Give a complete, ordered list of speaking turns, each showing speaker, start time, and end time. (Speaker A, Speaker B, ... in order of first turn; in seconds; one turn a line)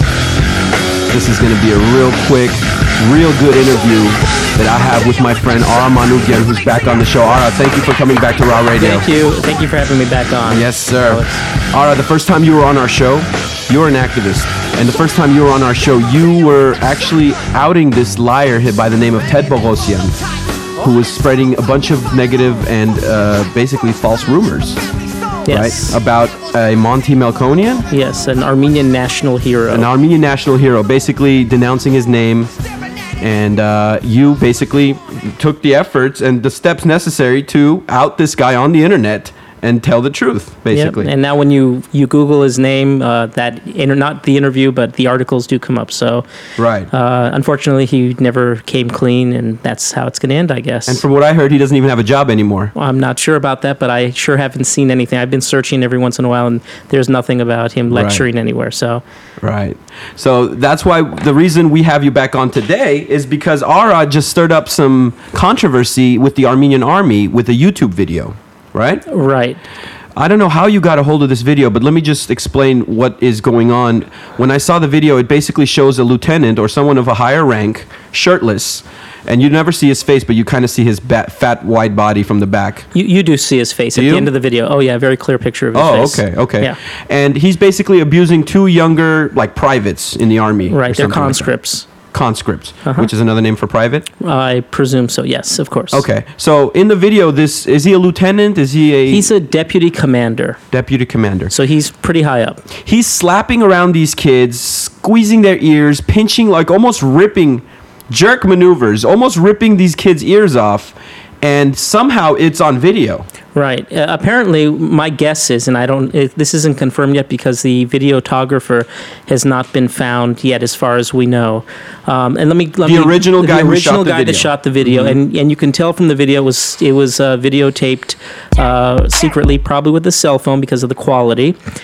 Speaker A: 1.1-9.1
Speaker B: 8.8-11.4
Speaker A: 10.4-20.2
Speaker A: 20.8-24.8
Speaker B: 25.4-26.0
Speaker A: 25.5-27.9
Speaker B: 27.9-29.9
Speaker A: 29.7-32.5
Speaker A: 33.2-41.1
Speaker B: 40.7-46.2
Speaker A: 46.6-46.9
Speaker B: 46.9-51.0
Speaker A: 50.9-52.7
Speaker B: 52.7-59.0
Speaker A: 57.9-58.2
Speaker A: 59.4-69.0
Speaker B: 69.1-69.6
Speaker A: 70.2-82.9
Speaker B: 82.9-86.8
Speaker A: 83.9-84.3
Speaker A: 85.7-91.5
Speaker B: 90.7-91.9
Speaker A: 92.1-94.0
Speaker B: 92.8-93.1
Speaker B: 94.2-96.0
Speaker A: 95.9-99.3
Speaker B: 99.1-100.6
Speaker A: 100.7-101.5
Speaker B: 101.5-102.6
Speaker A: 102.8-113.2
Speaker B: 113.5-131.6
Speaker A: 122.8-125.2